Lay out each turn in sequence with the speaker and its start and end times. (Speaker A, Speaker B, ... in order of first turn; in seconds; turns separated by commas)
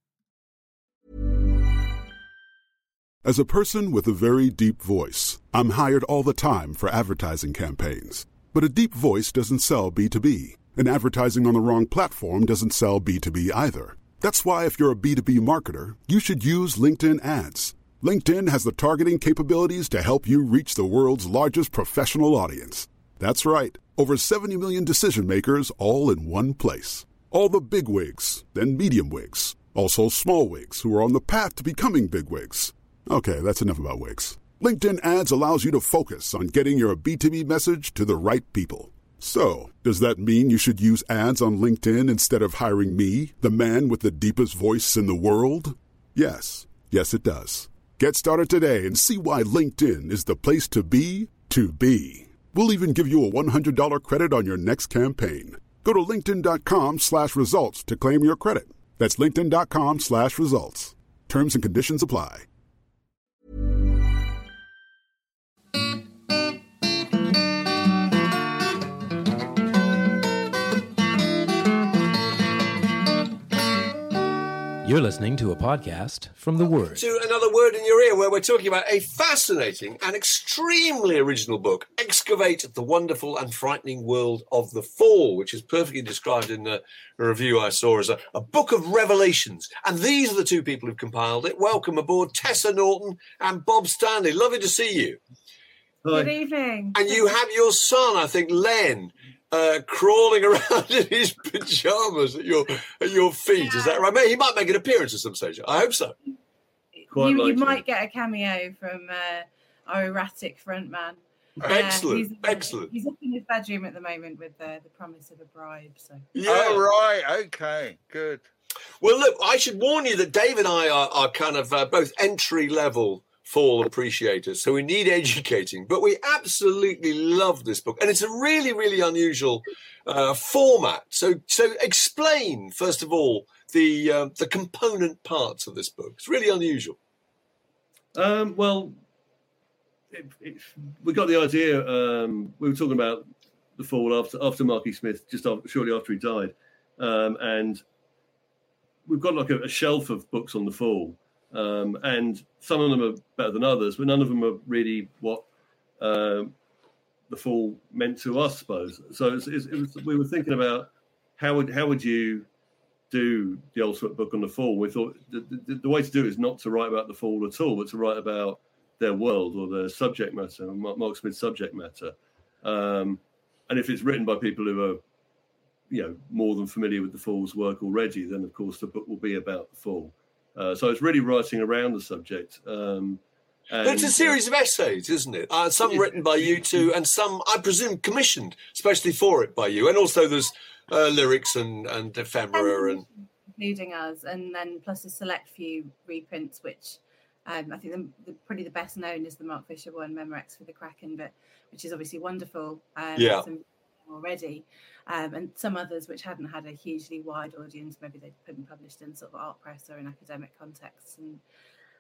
Speaker A: 3.2-62.5, Speaker B: 74.8-77.0, Speaker C: 76.9-95.2, Speaker D: 96.1-96.3, Speaker E: 96.1-97.2, Speaker C: 96.9-106.2, Speaker E: 103.6-104.0, Speaker E: 107.0-116.2, Speaker D: 107.1-107.8, Speaker C: 111.7-112.9, Speaker C: 116.3-116.8, Speaker F: 116.5-118.4, Speaker C: 119.0-137.0, Speaker D: 138.2-138.9, Speaker D: 140.1-147.8, Speaker D: 149.1-155.4, Speaker D: 156.0-156.6, Speaker D: 157.3-162.5, Speaker D: 163.1-175.0, Speaker D: 175.9-184.4, Speaker C: 183.8-193.1, Speaker D: 185.9-186.9, Speaker E: 192.5-211.4, Speaker C: 203.2-203.5